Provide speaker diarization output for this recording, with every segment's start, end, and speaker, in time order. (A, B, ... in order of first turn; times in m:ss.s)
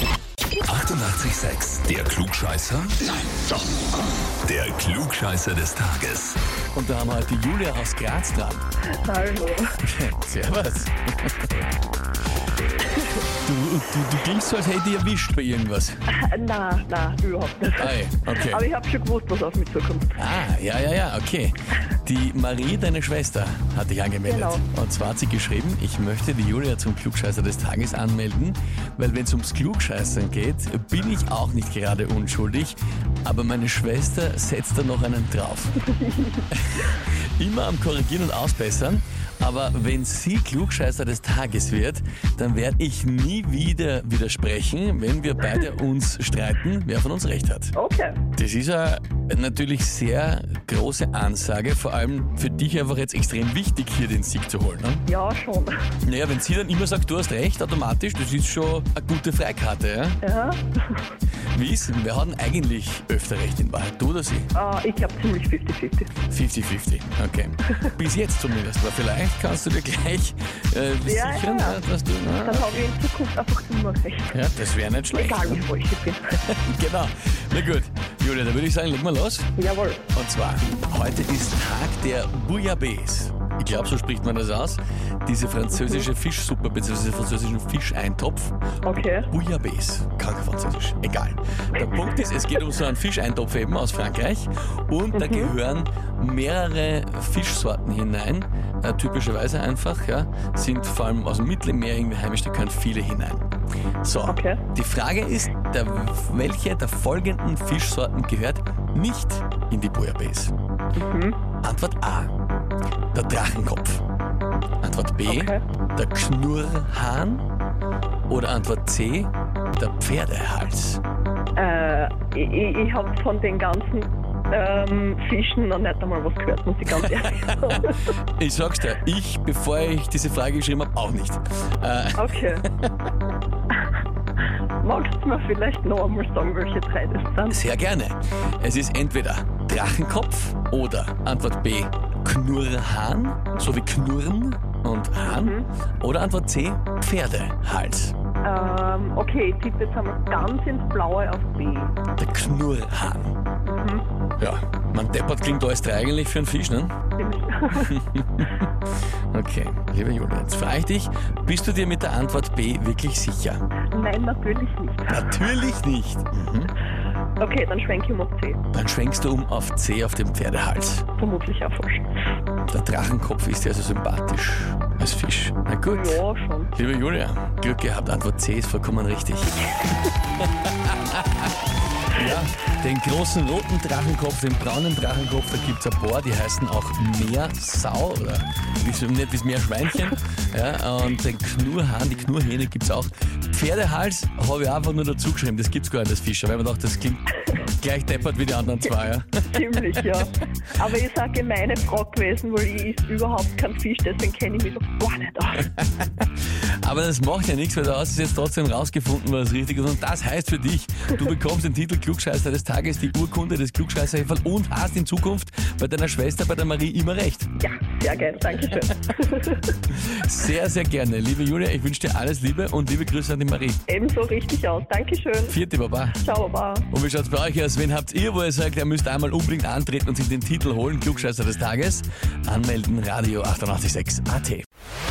0:00.7-0:03.1 A
0:04.4-0:06.4 A
0:06.7-0:08.6 B
0:09.0-0:09.8 C
0:09.8-0:11.5 B
0:13.4-0:16.0 B
0:16.1-0:20.2 C
0:17.8-0:18.6 B
0:20.2-0:35.9 B
0:24.3-0:24.6 C
0:36.0-0:36.4 C
0:36.5-0:47.7 B
0:47.8-0:48.2 C
0:48.3-0:55.0 B
0:55.1-0:55.8 C
0:56.0-1:00.2 B
1:00.2-1:01.0 C
1:01.5-1:04.5 B
1:04.5-1:06.1 C
1:06.3-1:12.9 B
1:11.0-1:11.8 C
1:12.4-1:14.4 C
1:14.3-1:15.7 B
1:15.2-1:16.4 C
1:16.5-1:19.5 B
1:19.6-1:20.0 C
1:20.1-1:28.6 B
1:25.7-1:26.1 C
1:28.8-1:29.3 C
1:29.3-1:43.4 B
1:31.8-1:32.6 C
1:35.1-1:35.5 C
1:44.0-1:50.5 B
1:44.3-1:44.6 C
1:51.0-1:51.4 C
1:51.6-1:52.3 B
1:53.1-1:54.0 B
1:54.8-1:57.4 B
1:55.3-1:55.6 C
1:58.3-2:01.0 B
2:01.6-2:08.1 C
2:06.9-2:12.9 B
2:12.2-2:12.7 C
2:14.8-2:17.6 C
2:17.5-2:28.2 B
2:25.2-2:25.7 C
2:28.4-2:32.0 C
2:32.2-2:33.4 B
2:33.6-2:34.0 C
2:34.4-2:36.9 B
2:37.2-2:38.0 C
2:37.7-2:38.7 B
2:39.3-2:43.6 B
2:43.9-2:45.4 C
2:45.1-2:46.7 B
2:47.4-2:48.6 C
2:48.7-2:51.1 B
2:51.2-2:52.1 C
2:52.7-2:56.2 B
2:55.9-2:56.7 C
2:56.7-2:59.7 B
3:00.4-3:01.5 B
3:02.1-3:19.6 B
3:19.4-3:25.7 C
3:25.8-3:26.3 B
3:26.8-3:37.5 B
3:37.6-3:39.8 C
3:39.9-3:43.8 B
3:43.9-3:45.6 C
3:45.5-3:46.2 B
3:46.1-3:46.9 C
3:46.9-3:54.7 B